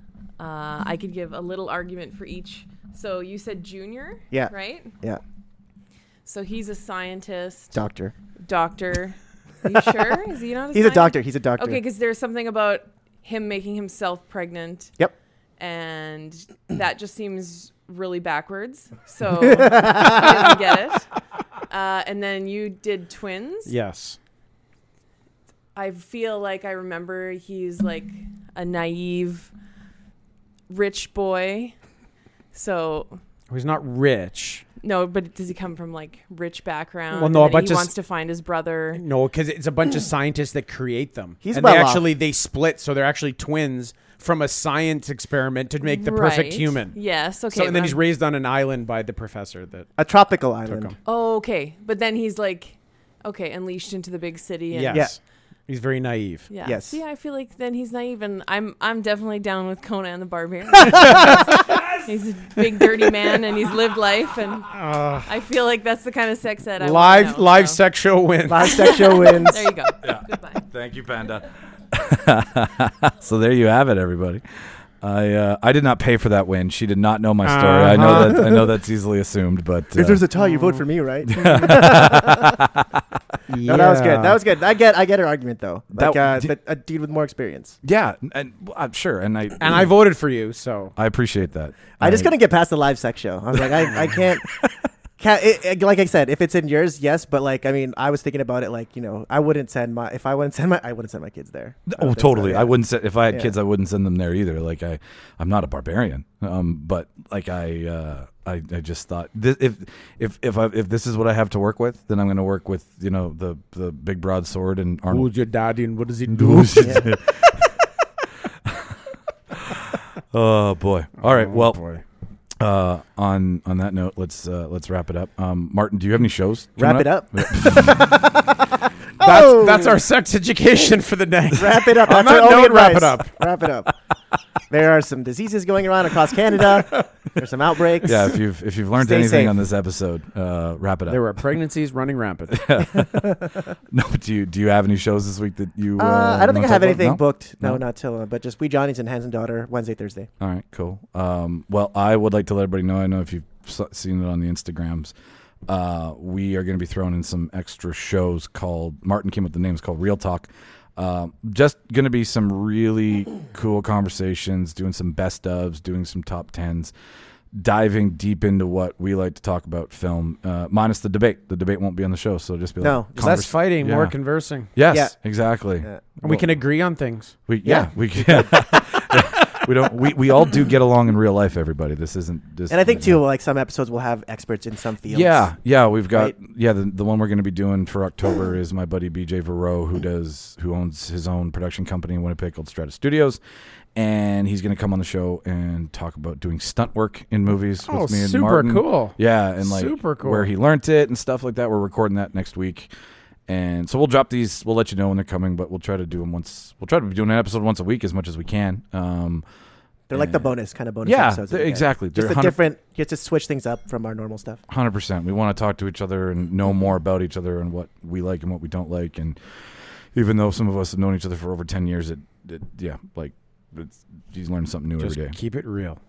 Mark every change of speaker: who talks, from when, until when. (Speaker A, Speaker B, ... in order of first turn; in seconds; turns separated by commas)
Speaker A: 0.4-4.9, Speaker B: 4.3-5.2, Speaker A: 6.2-7.8, Speaker B: 7.7-8.1, Speaker A: 8.4-14.9, Speaker B: 10.7-11.8, Speaker A: 15.6-21.1, Speaker B: 19.4-20.3, Speaker A: 21.7-23.7, Speaker C: 23.6-24.2, Speaker A: 25.7-29.5, Speaker A: 30.7-31.7, Speaker A: 32.5-33.2, Speaker C: 33.5-34.7, Speaker A: 34.8-39.0, Speaker C: 37.1-37.9, Speaker C: 38.9-47.0, Speaker B: 41.4-42.1, Speaker A: 45.8-48.0, Speaker C: 47.5-49.9, Speaker B: 50.0-50.9, Speaker C: 50.7-51.0, Speaker A: 51.0-55.1, Speaker C: 54.7-56.5, Speaker B: 54.9-55.1, Speaker A: 56.5-64.7, Speaker B: 56.6-57.0, Speaker C: 60.9-61.4, Speaker C: 64.7-65.3, Speaker A: 65.2-67.8, Speaker C: 66.8-68.9, Speaker B: 68.5-69.7, Speaker A: 68.6-70.6, Speaker D: 70.0-74.4, Speaker D: 75.0-80.2, Speaker C: 77.4-78.6, Speaker B: 79.9-82.6, Speaker D: 81.3-82.9, Speaker C: 83.5-84.4, Speaker B: 83.7-87.8, Speaker D: 85.9-86.5, Speaker D: 87.8-89.9, Speaker C: 89.6-90.9, Speaker D: 91.0-92.3, Speaker B: 92.0-94.6, Speaker B: 95.2-102.7, Speaker D: 101.9-115.3, Speaker B: 103.3-103.5, Speaker C: 115.1-117.1, Speaker D: 116.3-117.8, Speaker D: 118.7-118.9, Speaker D: 119.6-121.8, Speaker C: 121.2-122.0, Speaker D: 122.6-128.2, Speaker B: 126.8-128.3, Speaker B: 129.2-130.0, Speaker C: 129.2-133.4, Speaker B: 131.5-133.9, Speaker B: 134.7-138.4, Speaker D: 138.0-141.2, Speaker B: 138.9-139.6, Speaker C: 141.1-142.7, Speaker D: 142.5-143.4, Speaker B: 143.0-143.7, Speaker D: 143.9-147.8, Speaker B: 146.0-150.3, Speaker D: 150.4-155.1, Speaker D: 155.7-166.9, Speaker D: 167.5-176.5, Speaker B: 172.8-173.5, Speaker C: 173.2-174.7, Speaker B: 174.9-175.2, Speaker B: 175.7-176.0, Speaker C: 176.2-177.4, Speaker D: 177.4-183.2, Speaker B: 177.7-178.5, Speaker B: 182.7-185.5, Speaker D: 185.1-193.4, Speaker D: 193.9-202.9, Speaker C: 197.8-200.5, Speaker D: 203.5-209.4, Speaker B: 210.1-214.6, Speaker D: 210.1-210.5, Speaker D: 211.0-212.6, Speaker D: 214.7-219.6, Speaker D: 220.1-225.4, Speaker C: 225.0-226.0